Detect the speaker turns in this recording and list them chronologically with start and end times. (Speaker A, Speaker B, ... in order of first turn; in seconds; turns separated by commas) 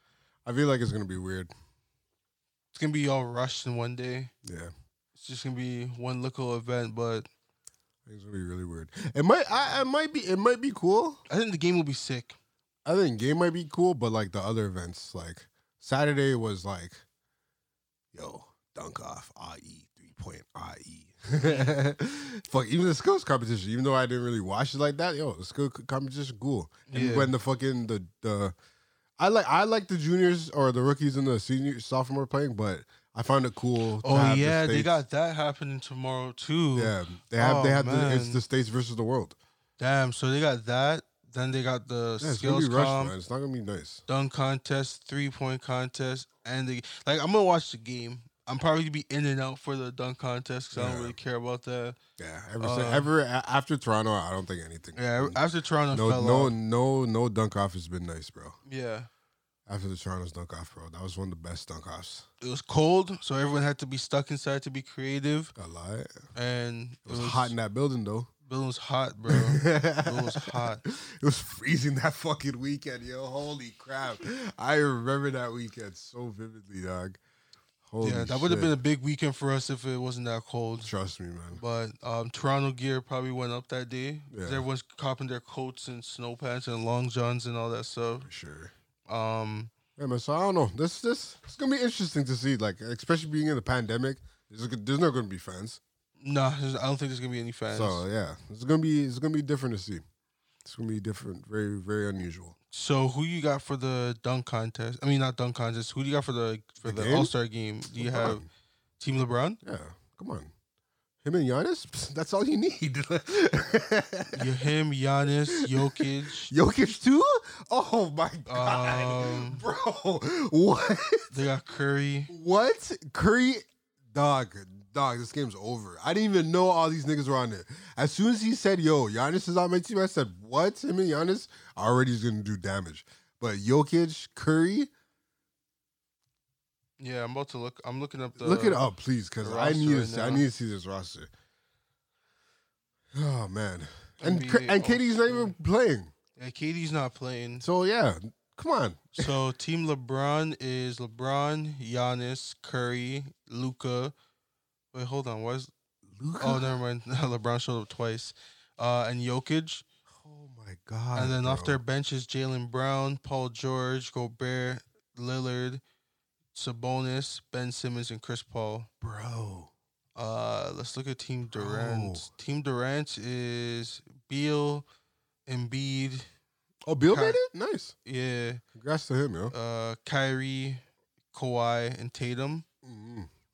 Speaker A: 0.4-1.5, Speaker B: 2.7-4.3, Speaker A: 4.4-4.7, Speaker B: 5.1-7.3, Speaker A: 8.1-11.2, Speaker B: 11.3-12.4, Speaker A: 12.8-17.0, Speaker A: 18.1-28.5, Speaker B: 21.4-21.8, Speaker B: 26.9-27.3, Speaker A: 29.2-35.0, Speaker B: 34.0-38.4, Speaker A: 36.7-39.4, Speaker B: 39.8-43.1, Speaker A: 42.2-44.0, Speaker B: 44.1-52.0, Speaker A: 50.7-51.2, Speaker A: 52.2-55.4, Speaker B: 52.6-53.1, Speaker B: 55.0-56.5, Speaker A: 55.9-58.6, Speaker B: 58.6-59.1, Speaker A: 59.7-62.2, Speaker B: 62.4-65.5, Speaker A: 65.6-66.2, Speaker B: 66.3-67.5, Speaker A: 67.1-68.3, Speaker B: 68.5-70.8, Speaker A: 69.3-77.2, Speaker A: 77.8-78.8, Speaker B: 78.0-80.9, Speaker A: 80.8-81.6, Speaker B: 81.5-88.3, Speaker A: 84.3-84.6, Speaker A: 88.3-88.7, Speaker B: 89.1-89.7, Speaker A: 90.0-95.8, Speaker B: 96.2-98.0, Speaker A: 97.7-100.0, Speaker A: 100.6-102.5, Speaker B: 102.7-108.4, Speaker A: 106.8-107.3, Speaker A: 108.0-108.5, Speaker B: 109.0-109.6, Speaker A: 109.6-110.5, Speaker A: 111.2-114.5, Speaker B: 114.3-116.5, Speaker A: 115.5-121.3, Speaker B: 118.5-119.6, Speaker B: 121.3-122.3, Speaker A: 122.3-134.9, Speaker B: 137.0-138.8, Speaker A: 138.4-141.3, Speaker B: 139.4-140.4, Speaker A: 143.1-146.1, Speaker B: 144.2-145.5, Speaker B: 146.4-147.6, Speaker A: 147.6-149.4, Speaker B: 149.2-154.1, Speaker B: 154.9-155.7, Speaker A: 156.1-156.8, Speaker B: 156.4-159.8, Speaker A: 160.1-161.8, Speaker B: 161.1-165.8, Speaker B: 166.5-168.9, Speaker A: 169.0-169.7, Speaker B: 170.2-174.8, Speaker A: 171.5-172.3, Speaker B: 175.5-176.3, Speaker A: 176.8-177.9, Speaker B: 177.1-177.4, Speaker B: 178.0-178.6, Speaker A: 178.7-179.5, Speaker B: 179.5-180.8, Speaker B: 181.3-182.7, Speaker A: 182.8-183.3